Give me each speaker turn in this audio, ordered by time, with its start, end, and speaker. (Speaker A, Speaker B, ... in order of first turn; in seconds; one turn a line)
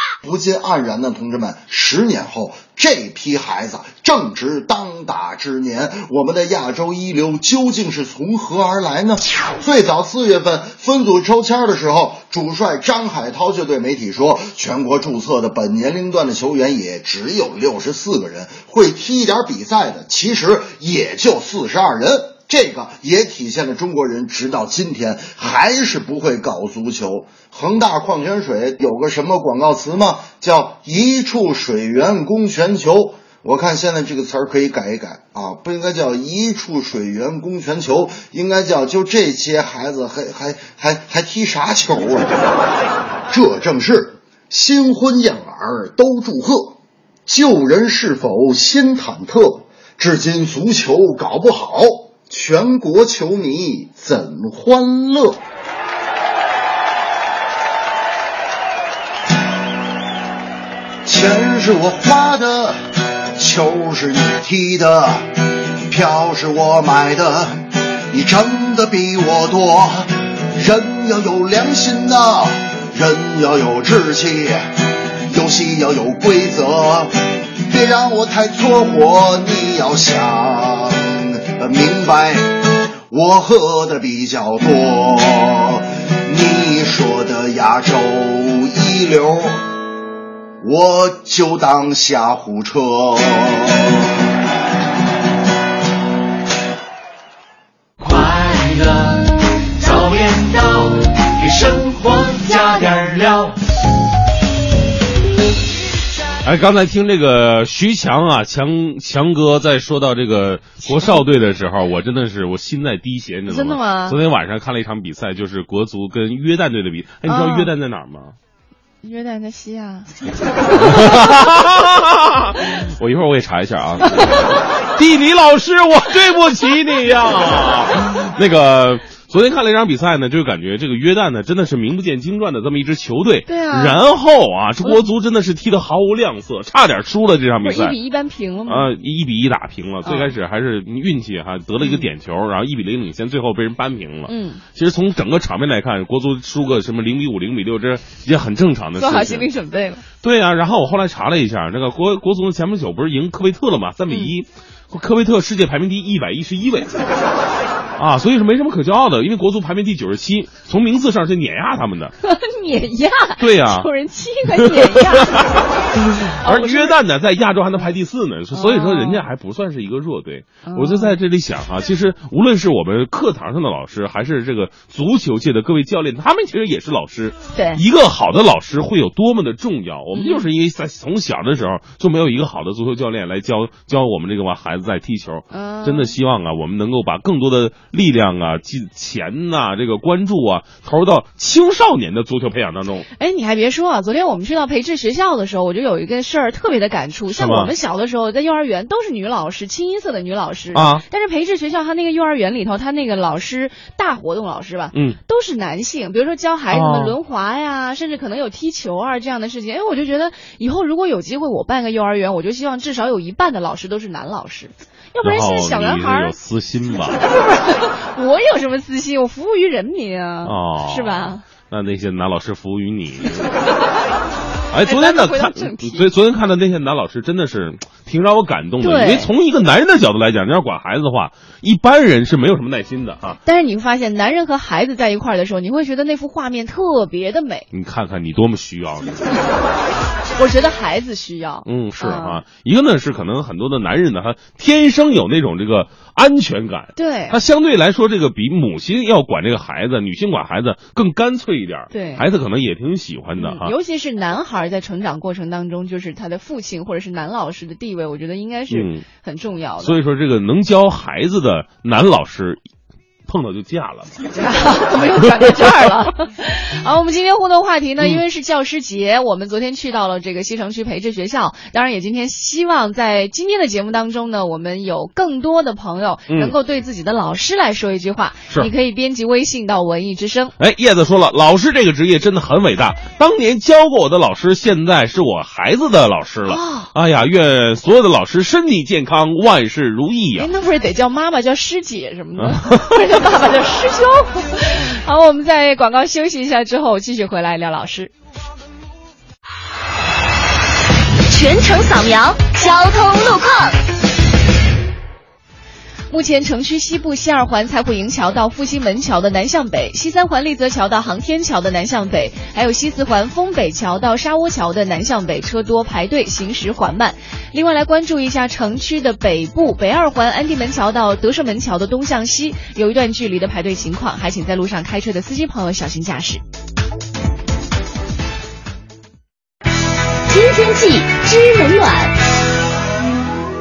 Speaker A: 0.2-42.6
Speaker A: 43.3-55.4
Speaker A: 61.0-62.8
Speaker A: 63.4-65.3
Speaker A: 65.9-74.8
Speaker A: 75.3-89.6
Speaker A: 90.6-94.1
Speaker B: 98.0-103.5
Speaker C: 106.4-118.3
Speaker D: 110.8-111.2
Speaker D: 113.5-114.2
Speaker D: 117.3-117.7
Speaker D: 119.0-120.1
Speaker D: 120.6-121.3
Speaker C: 120.8-137.9
Speaker D: 124.2-124.6
Speaker D: 133.5-134.0
Speaker D: 137.6-138.9
Speaker C: 138.7-149.5
Speaker D: 140.1-140.3
Speaker D: 141.8-142.1
Speaker D: 144.3-144.6
Speaker D: 149.0-150.0
Speaker C: 150.2-156.9
Speaker C: 158.0-162.1
Speaker D: 162.2-165.4
Speaker C: 163.4-163.9
Speaker C: 164.6-165.6
Speaker D: 166.0-166.9
Speaker C: 166.3-193.1
Speaker D: 168.5-169.2
Speaker D: 170.7-171.1
Speaker D: 177.5-177.8
Speaker D: 180.2-180.5
Speaker D: 185.5-186.1
Speaker D: 193.2-216.3
Speaker C: 197.3-197.7
Speaker C: 200.7-201.0
Speaker C: 204.9-205.2
Speaker C: 206.7-207.2
Speaker C: 215.2-217.2
Speaker D: 217.2-221.4
Speaker C: 220.4-223.4
Speaker C: 224.7-233.4
Speaker D: 224.8-226.1
Speaker D: 228.8-229.3
Speaker D: 233.4-237.7
Speaker C: 237.7-239.3
Speaker D: 240.4-242.4
Speaker C: 241.7-253.7
Speaker D: 246.9-247.4
Speaker D: 251.9-252.2
Speaker D: 253.4-260.0
Speaker C: 258.7-259.0
Speaker C: 259.8-262.6
Speaker C: 263.3-264.1
Speaker D: 264.4-280.5
Speaker C: 280.6-290.5
Speaker D: 286.5-286.9
Speaker D: 290.4-298.1
Speaker C: 292.4-293.0
Speaker E: 301.3-303.8
Speaker D: 306.1-326.4
Speaker E: 330.3-332.1